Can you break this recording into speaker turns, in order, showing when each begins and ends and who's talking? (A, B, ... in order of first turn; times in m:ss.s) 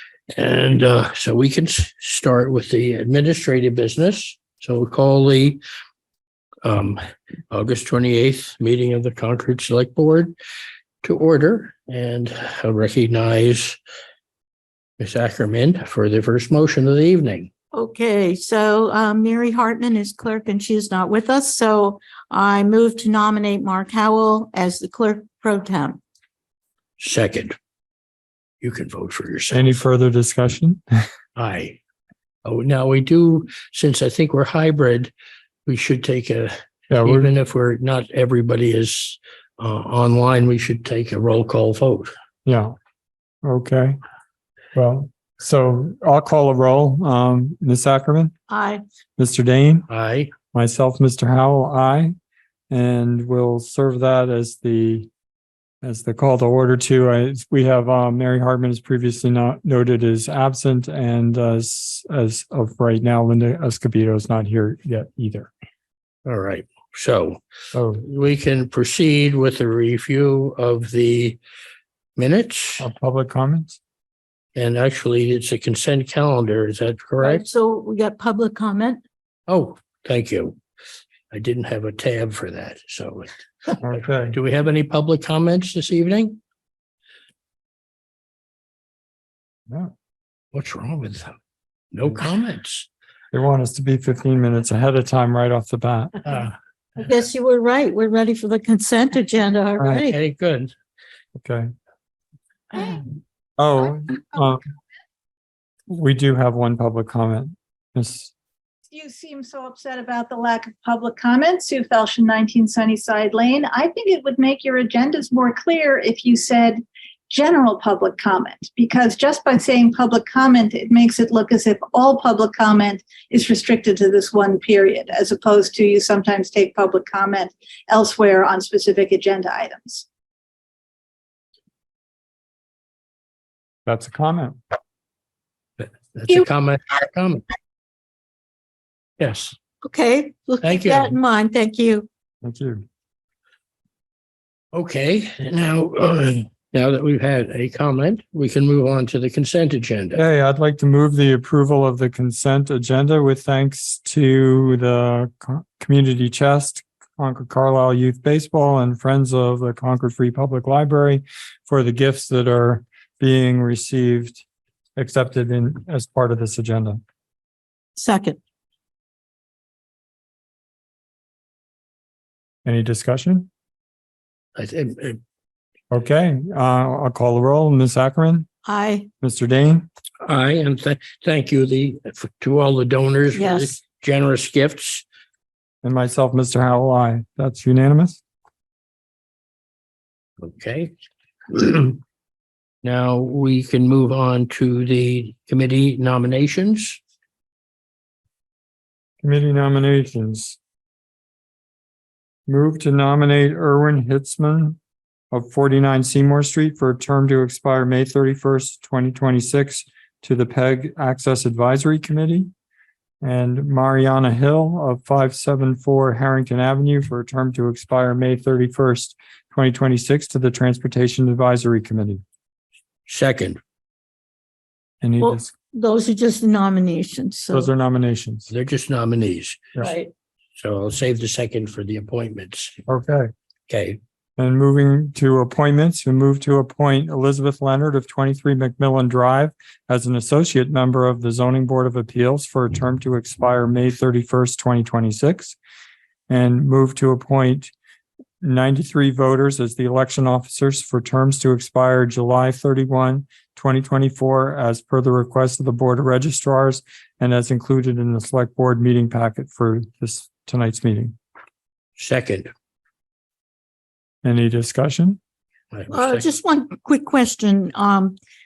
0:00.3-0:05.6 A
0:06.6-0:07.0 A
0:07.5-0:10.3 A
0:11.0-0:13.8 A
0:15.0-0:17.5 A
0:17.7-0:26.0 B
0:27.0-0:27.5 A
0:28.6-0:29.7 A
0:29.5-0:30.8 C
0:31.4-0:31.8 A
0:32.4-0:35.1 A
0:35.7-0:42.1 A
0:36.9-0:37.3 C
0:42.4-0:42.8 C
0:43.4-0:44.0 C
0:44.7-0:48.3 C
0:48.5-0:48.8 B
0:49.2-0:49.9 C
0:49.9-0:50.3 A
0:50.5-0:52.1 C
0:52.7-0:55.1 C
0:55.8-1:05.5 C
1:06.2-1:07.4 A
1:07.7-1:08.0 C
1:08.0-1:11.4 A
1:12.2-1:12.9 A
1:12.8-1:13.8 C
1:14.6-1:17.4 A
1:17.2-1:19.0 B
1:19.5-1:20.6 A
1:21.3-1:26.4 A
1:23.8-1:24.4 C
1:30.5-1:31.3 A
1:31.9-1:32.9 A
1:33.3-1:36.2 C
1:36.2-1:36.5 A
1:37.0-1:40.2 B
1:40.1-1:40.7 A
1:41.3-1:41.7 C
1:43.6-1:44.6 C
1:45.9-1:48.3 C
1:48.9-2:10.0 D
2:13.8-2:14.6 C
2:15.8-2:17.4 A
2:19.2-2:19.6 A
2:19.8-2:22.1 B
2:20.6-2:21.2 A
2:22.4-2:22.8 C
2:24.7-2:30.2 A
2:30.1-2:44.4 C
2:45.0-2:47.0 C
2:48.0-2:48.4 B
2:52.6-2:53.5 C
2:54.6-2:55.2 A
2:55.9-2:58.5 C
2:58.6-2:59.1 B
2:59.2-2:59.9 C
3:00.2-3:05.0 A
3:03.3-3:03.8 B
3:05.8-3:08.2 C
3:10.4-3:10.9 A
3:11.5-3:12.0 A
3:12.8-3:17.0 A
3:19.2-3:20.6 C
3:22.5-3:24.8 C
3:25.3-3:32.5 C
3:33.2-3:42.2 C
3:43.1-3:43.6 A
3:45.0-3:45.5 C
3:45.2-3:47.7 B
3:47.5-3:48.5 C
3:48.5-3:49.6 A
3:49.8-3:50.1 B
3:50.6-3:52.8 A
3:52.9-3:53.3 C
3:53.7-3:54.0 A
3:54.4-4:05.6 C
4:06.3-4:07.7 C
4:08.4-4:21.1 C
4:22.0-4:22.5 A
4:24.2-4:25.2 C
4:25.7-4:26.3 A
4:25.9-4:28.2 B